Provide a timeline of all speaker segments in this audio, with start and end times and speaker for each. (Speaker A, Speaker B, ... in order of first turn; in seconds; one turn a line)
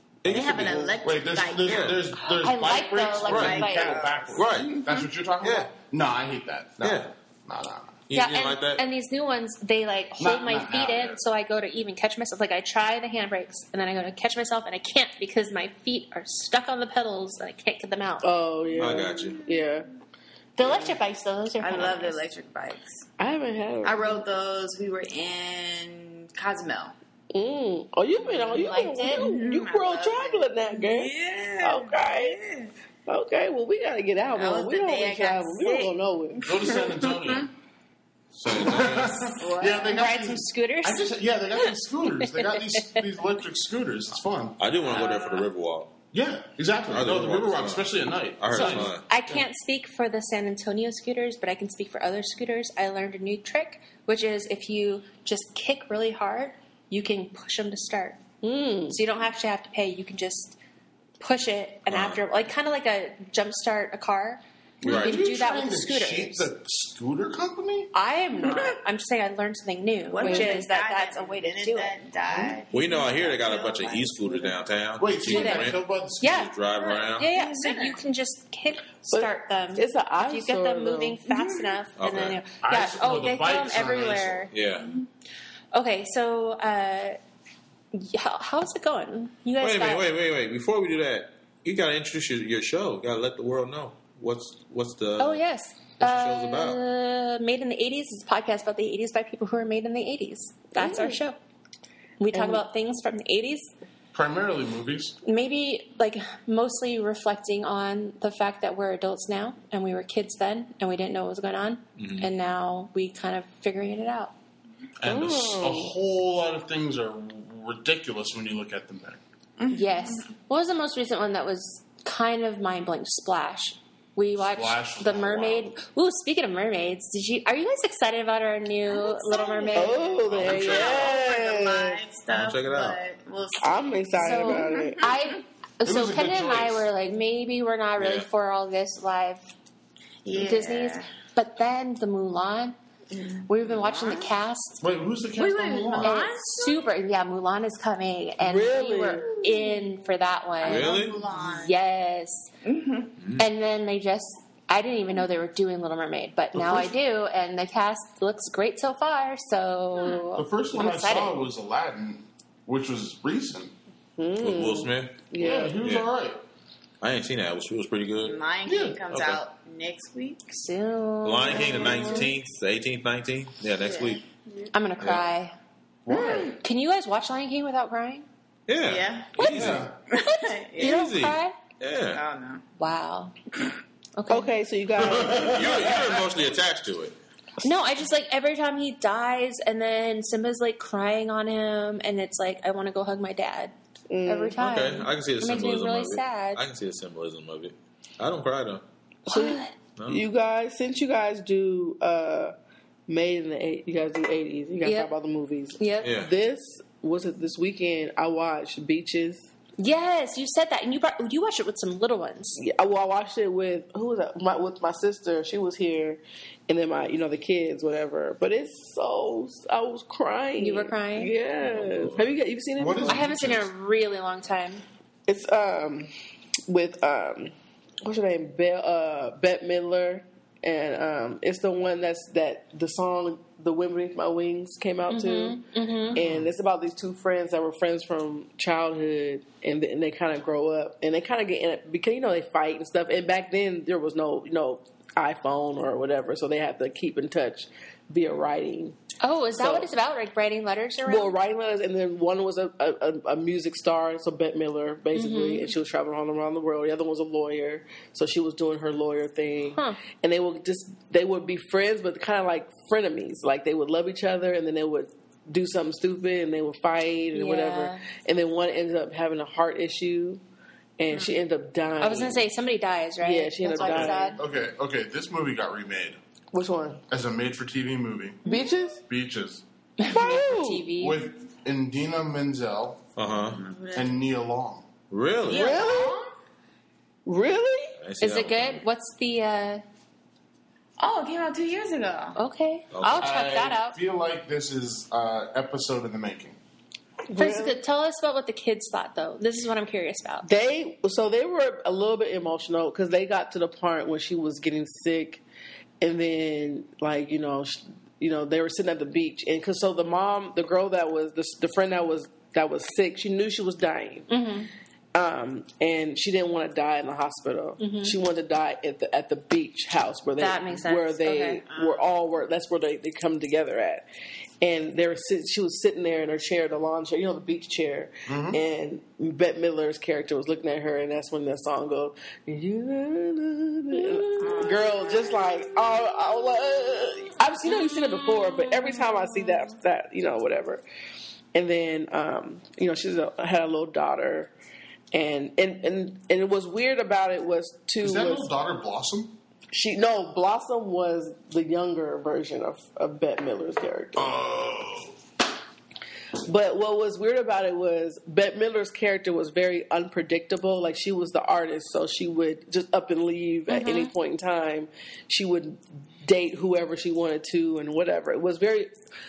Speaker A: 0.2-1.0
Speaker B: 0.3-2.0
Speaker C: 0.3-0.9
Speaker D: 1.0-8.0
Speaker A: 1.6-2.0
Speaker E: 2.2-4.1
Speaker B: 3.3-5.1
Speaker A: 3.3-3.6
Speaker A: 4.3-4.8
Speaker A: 5.4-5.7
Speaker A: 6.8-7.1
Speaker A: 8.1-8.8
Speaker E: 8.1-18.3
Speaker D: 10.2-11.2
Speaker C: 18.2-19.9
Speaker A: 18.8-19.4
Speaker B: 19.0-19.6
Speaker E: 20.6-22.2
Speaker C: 20.6-20.9
Speaker B: 21.6-23.1
Speaker C: 23.2-24.2
Speaker B: 23.8-26.9
Speaker C: 27.3-32.4
Speaker E: 28.1-29.3
Speaker B: 29.1-32.7
Speaker C: 33.1-36.7
Speaker B: 34.4-37.5
Speaker D: 36.4-37.5
Speaker A: 38.3-39.4
Speaker D: 38.5-44.6
Speaker B: 39.4-39.9
Speaker E: 39.8-43.1
Speaker A: 44.6-45.9
Speaker B: 44.9-45.5
Speaker D: 46.1-49.4
Speaker A: 46.9-49.1
Speaker E: 48.5-58.2
Speaker C: 48.5-48.8
Speaker C: 58.4-59.0
Speaker E: 58.9-60.6
Speaker E: 61.2-66.5
Speaker A: 61.9-62.2
Speaker D: 64.8-67.9
Speaker A: 64.8-65.2
Speaker E: 67.9-71.9
Speaker B: 68.5-68.8
Speaker B: 70.1-74.6
Speaker C: 70.2-70.6
Speaker A: 72.7-77.3
Speaker D: 75.0-76.2
Speaker E: 75.2-76.5
Speaker B: 76.8-78.0
Speaker E: 77.2-84.5
Speaker C: 79.1-81.2
Speaker A: 82.0-82.4
Speaker D: 82.6-84.5
Speaker A: 84.5-84.9
Speaker B: 84.8-85.1
Speaker E: 85.7-87.2
Speaker E: 87.9-90.1
Speaker A: 89.6-95.4
Speaker E: 95.2-101.4
Speaker A: 96.0-96.8
Speaker C: 100.8-101.2
Speaker E: 102.2-103.7
Speaker C: 102.3-102.7
Speaker D: 104.1-105.1
Speaker E: 105.2-114.3
Speaker A: 112.0-112.3
Speaker D: 115.0-119.2
Speaker C: 115.0-115.9
Speaker B: 119.6-120.3
Speaker E: 119.7-130.1
Speaker D: 124.4-125.7
Speaker B: 128.9-135.3
Speaker C: 129.7-132.0
Speaker A: 130.3-131.2
Speaker A: 132.3-133.0
Speaker C: 133.6-135.0
Speaker E: 134.2-139.5
Speaker D: 135.8-136.9
Speaker A: 138.0-138.3
Speaker B: 140.2-141.1
Speaker E: 140.3-142.8
Speaker B: 143.1-144.3
Speaker E: 143.5-144.8
Speaker D: 144.8-146.2
Speaker B: 145.4-146.9
Speaker E: 146.0-152.5
Speaker C: 148.4-149.3
Speaker B: 149.4-149.8
Speaker B: 150.6-151.8
Speaker A: 150.6-151.2
Speaker B: 152.6-153.1
Speaker E: 153.4-161.4
Speaker C: 156.5-156.9
Speaker B: 160.0-160.3
Speaker D: 160.3-163.7
Speaker C: 164.2-165.8
Speaker A: 164.4-165.3
Speaker D: 165.4-166.4
Speaker A: 165.8-166.1
Speaker A: 167.0-168.4
Speaker B: 168.2-170.4
Speaker D: 168.7-169.0
Speaker A: 169.1-169.4
Speaker E: 170.5-172.3
Speaker A: 171.2-174.2
Speaker B: 171.8-172.1
Speaker B: 173.8-174.7
Speaker E: 174.7-175.5
Speaker D: 176.1-176.6
Speaker B: 176.1-176.6
Speaker E: 176.5-178.3
Speaker A: 178.7-179.9
Speaker B: 178.8-179.5
Speaker D: 179.4-179.9
Speaker E: 179.6-181.6
Speaker B: 180.1-181.0
Speaker A: 180.8-182.2
Speaker B: 182.1-182.6
Speaker E: 182.8-183.3
Speaker E: 184.2-184.5
Speaker C: 184.3-185.9
Speaker D: 185.0-186.1
Speaker A: 185.4-187.2
Speaker E: 187.6-193.7
Speaker C: 194.1-194.6
Speaker E: 194.3-196.6
Speaker A: 194.6-198.8
Speaker C: 199.3-202.5
Speaker E: 199.3-199.7
Speaker A: 200.0-200.2
Speaker C: 203.1-209.5
Speaker E: 204.8-205.1
Speaker E: 205.8-206.1
Speaker A: 206.0-206.3
Speaker E: 209.8-212.6
Speaker C: 212.6-223.3
Speaker E: 220.6-221.3
Speaker A: 221.6-222.3
Speaker D: 222.8-223.7
Speaker E: 223.1-224.8
Speaker C: 225.3-226.1
Speaker C: 226.7-235.6
Speaker E: 235.1-236.2
Speaker C: 236.1-249.0
Speaker D: 236.2-236.4
Speaker E: 249.2-251.3
Speaker C: 249.6-249.9
Speaker C: 251.1-270.4
Speaker E: 255.1-255.7
Speaker E: 267.3-268.0
Speaker C: 271.0-272.4
Speaker B: 271.1-271.4
Speaker E: 272.0-274.4
Speaker C: 273.2-274.4
Speaker D: 273.8-276.2
Speaker C: 276.5-277.0
Speaker D: 277.1-278.4
Speaker C: 278.4-279.0
Speaker D: 279.1-279.6
Speaker E: 280.0-281.2
Speaker C: 280.1-280.8
Speaker D: 281.0-283.0
Speaker A: 283.2-283.6
Speaker B: 283.4-284.2
Speaker D: 283.9-284.9
Speaker A: 285.1-285.7
Speaker B: 285.4-286.3
Speaker C: 285.5-286.2
Speaker C: 287.3-287.9
Speaker A: 288.0-288.9
Speaker E: 288.2-289.8
Speaker B: 291.0-292.4
Speaker E: 292.4-294.0
Speaker A: 292.9-293.4
Speaker D: 293.2-296.6
Speaker C: 297.3-297.8
Speaker E: 297.3-300.5
Speaker C: 300.4-305.4
Speaker C: 306.0-314.3
Speaker E: 314.3-314.7
Speaker C: 315.1-324.1
Speaker E: 317.8-318.2
Speaker E: 320.4-321.6
Speaker B: 321.7-322.1
Speaker C: 324.6-340.8
Speaker D: 328.3-328.6
Speaker E: 334.0-334.3
Speaker B: 334.4-335.5
Speaker E: 337.7-339.6
Speaker C: 341.5-344.5
Speaker C: 345.1-348.5
Speaker D: 348.0-349.4
Speaker C: 349.7-354.3
Speaker A: 354.2-355.1
Speaker C: 356.4-368.9
Speaker E: 363.7-364.1